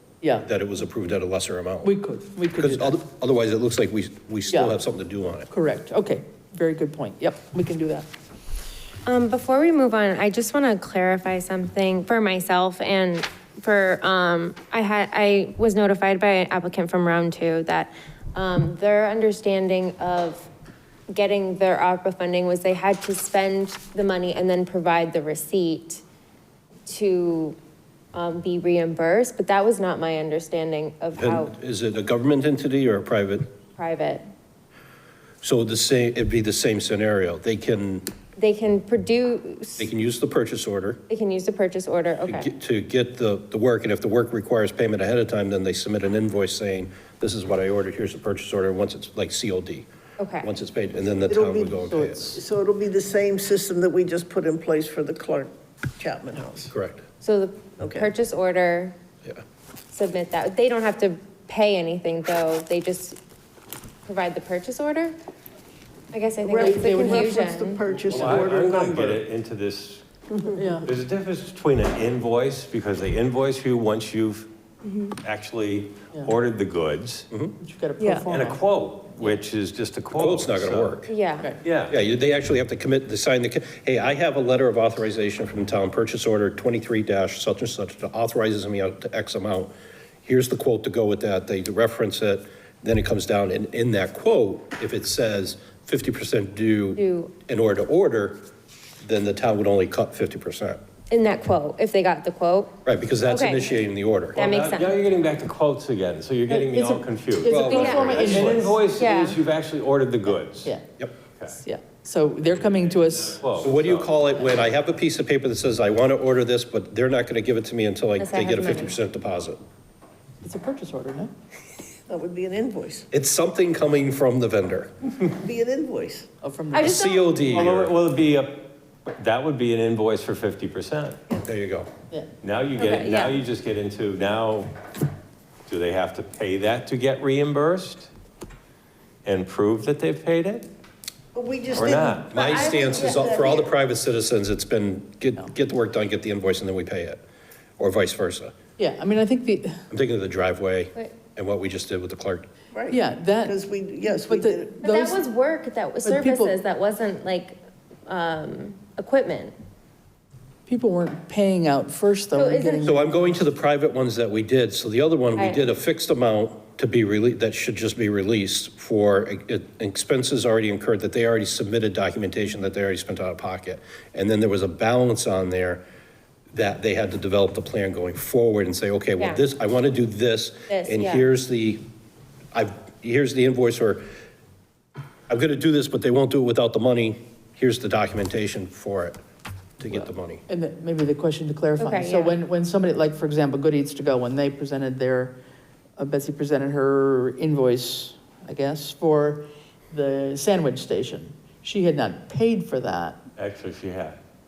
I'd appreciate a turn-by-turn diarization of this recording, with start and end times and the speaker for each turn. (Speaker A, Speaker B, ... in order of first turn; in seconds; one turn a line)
Speaker A: 0.2-0.5
Speaker B: 0.4-1.9
Speaker A: 1.8-3.0
Speaker B: 2.6-5.5
Speaker A: 4.5-4.8
Speaker A: 5.5-8.1
Speaker C: 9.1-20.5
Speaker C: 21.1-26.0
Speaker C: 26.9-27.6
Speaker C: 28.1-31.5
Speaker B: 31.2-33.5
Speaker C: 33.8-34.2
Speaker B: 35.4-38.0
Speaker C: 38.4-39.9
Speaker B: 39.8-41.0
Speaker C: 41.1-42.5
Speaker B: 42.2-49.9
Speaker C: 50.2-50.5
Speaker B: 50.4-52.4
Speaker D: 51.2-56.7
Speaker B: 56.7-57.0
Speaker C: 57.2-59.0
Speaker D: 57.8-58.1
Speaker C: 59.9-63.2
Speaker C: 64.1-65.2
Speaker C: 66.1-67.8
Speaker D: 66.4-69.2
Speaker A: 66.6-67.3
Speaker E: 68.1-70.1
Speaker A: 70.5-70.9
Speaker E: 70.8-74.5
Speaker C: 74.9-75.1
Speaker E: 75.1-77.3
Speaker B: 77.3-77.6
Speaker A: 77.6-78.6
Speaker C: 78.0-78.3
Speaker E: 78.3-81.0
Speaker B: 80.1-81.1
Speaker C: 81.1-81.6
Speaker E: 81.6-82.0
Speaker B: 81.9-89.7
Speaker B: 90.2-98.4
Speaker C: 97.0-97.3
Speaker B: 99.0-100.8
Speaker C: 101.1-103.7
Speaker B: 102.8-104.4
Speaker E: 104.3-110.7
Speaker C: 104.4-105.0
Speaker A: 106.5-108.8
Speaker B: 107.5-108.7
Speaker C: 107.6-108.4
Speaker C: 108.9-109.4
Speaker E: 111.4-111.6
Speaker A: 111.6-113.4
Speaker E: 112.4-114.6
Speaker B: 113.6-119.6
Speaker C: 118.2-119.0
Speaker A: 120.4-121.3
Speaker D: 122.1-123.1
Speaker B: 123.1-124.9
Speaker D: 125.3-126.3
Speaker A: 126.4-127.0
Speaker C: 126.7-127.5
Speaker B: 126.8-127.9
Speaker E: 127.5-131.2
Speaker B: 131.4-131.9
Speaker E: 132.4-134.7
Speaker C: 132.8-133.4
Speaker E: 135.7-138.1
Speaker E: 139.2-140.7
Speaker D: 141.3-143.7
Speaker E: 141.7-142.3
Speaker B: 142.3-147.2
Speaker C: 142.3-143.3
Speaker B: 147.8-148.5
Speaker A: 148.8-149.8
Speaker B: 149.9-152.5
Speaker D: 152.7-154.8
Speaker A: 152.9-155.2
Speaker C: 154.8-159.5
Speaker A: 156.0-156.6
Speaker A: 160.7-163.4
Speaker C: 162.3-162.9
Speaker B: 162.8-175.8
Speaker C: 165.3-165.7
Speaker B: 176.5-181.8
Speaker C: 179.2-179.4
Speaker C: 180.7-181.3
Speaker B: 182.5-184.0
Speaker B: 185.3-189.2
Speaker B: 189.8-190.4
Speaker A: 190.5-195.4
Speaker C: 191.8-192.3
Speaker A: 196.0-203.2
Speaker E: 203.3-204.2